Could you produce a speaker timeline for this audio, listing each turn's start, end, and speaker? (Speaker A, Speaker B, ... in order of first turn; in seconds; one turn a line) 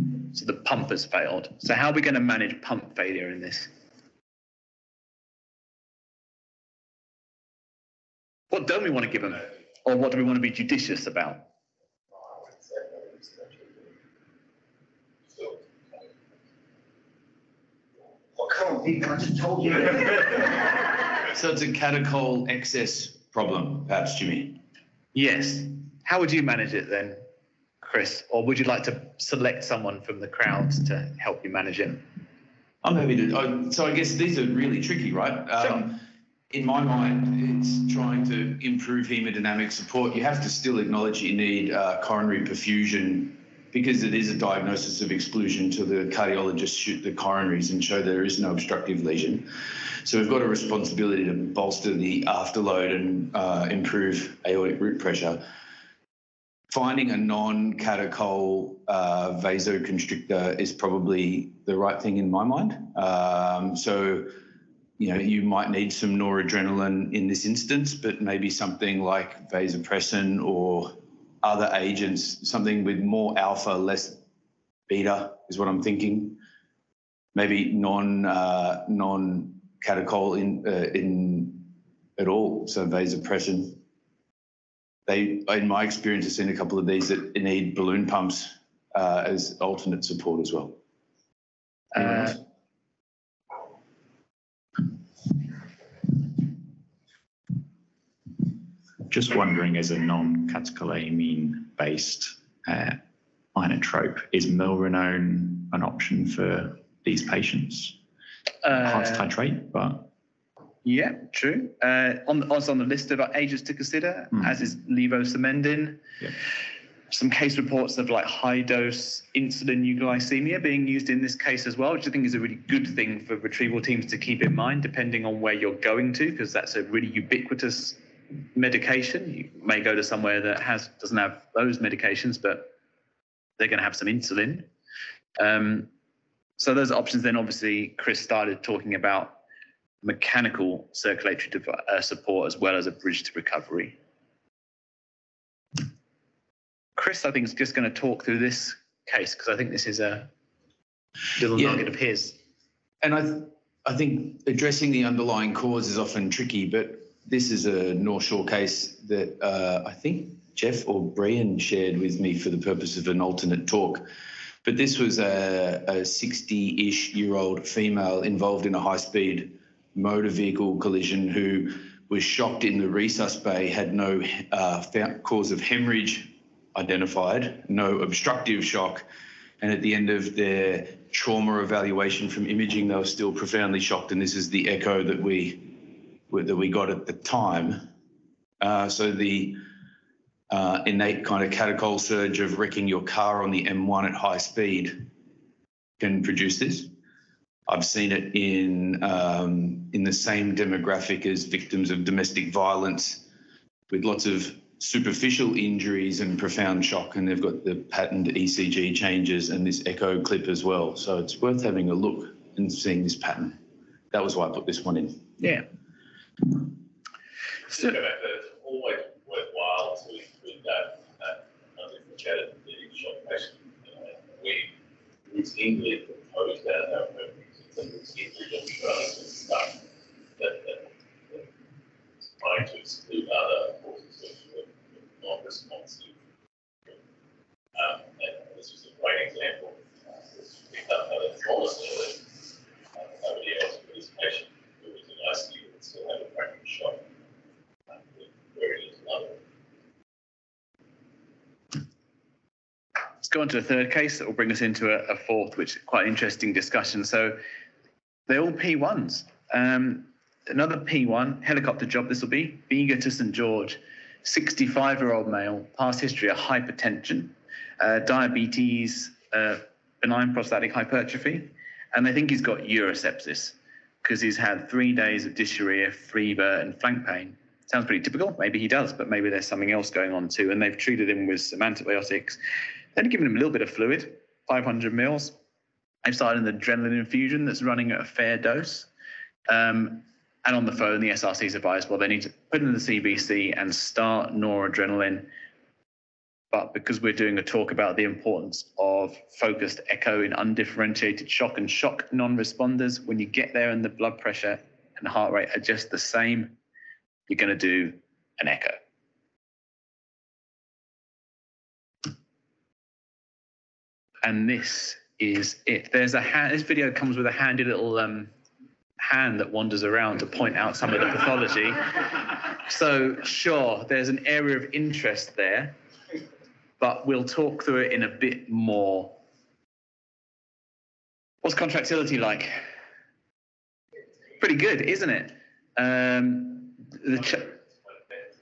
Speaker A: 0.3-3.7
Speaker A: 8.5-11.4
Speaker B: 12.2-13.8
Speaker B: 18.4-20.7
Speaker C: 21.3-24.6
Speaker A: 25.1-27.2
Speaker A: 27.8-32.0
Speaker C: 32.8-49.5
Speaker C: 50.0-55.4
Speaker C: 56.7-64.3
Speaker C: 65.0-74.2
Speaker C: 74.9-76.4
Speaker C: 77.3-83.8
Speaker C: 85.0-90.8
Speaker A: 91.9-92.4
Speaker C: 92.0-92.4
Speaker D: 99.1-103.0
Speaker D: 103.5-108.0
Speaker A: 108.6-109.3
Speaker D: 108.7-110.1
Speaker A: 110.8-116.0
Speaker A: 117.1-128.0
Speaker A: 128.5-132.7
Speaker A: 133.6-134.7
Speaker A: 135.4-135.9
Speaker A: 136.6-139.4
Speaker A: 140.0-144.0
Speaker A: 146.9-150.3
Speaker A: 151.3-152.4
Speaker C: 151.5-151.8
Speaker C: 153.0-164.1
Speaker C: 164.6-179.1
Speaker C: 179.6-187.8
Speaker C: 188.6-189.6
Speaker C: 190.5-195.1
Speaker C: 196.0-196.9
Speaker C: 197.7-203.2
Speaker C: 203.9-213.6
Speaker C: 214.1-215.3
Speaker A: 215.4-215.7
Speaker E: 217.7-224.7
Speaker E: 225.3-229.8
Speaker E: 230.4-231.4
Speaker E: 232.3-236.1
Speaker E: 237.7-239.8
Speaker E: 240.3-242.2
Speaker E: 243.0-247.0
Speaker E: 247.9-249.4
Speaker A: 253.2-257.4
Speaker A: 258.3-282.4
Speaker A: 282.9-285.4
Speaker A: 286.0-288.9
Speaker A: 289.5-295.3
Speaker A: 296.5-306.6
Speaker A: 307.3-308.8
Speaker A: 314.2-318.3
Speaker A: 319.0-321.9
Speaker A: 322.6-325.8
Speaker A: 326.8-329.2
Speaker A: 331.4-332.5
Speaker A: 334.4-337.4
Speaker E: 337.1-338.3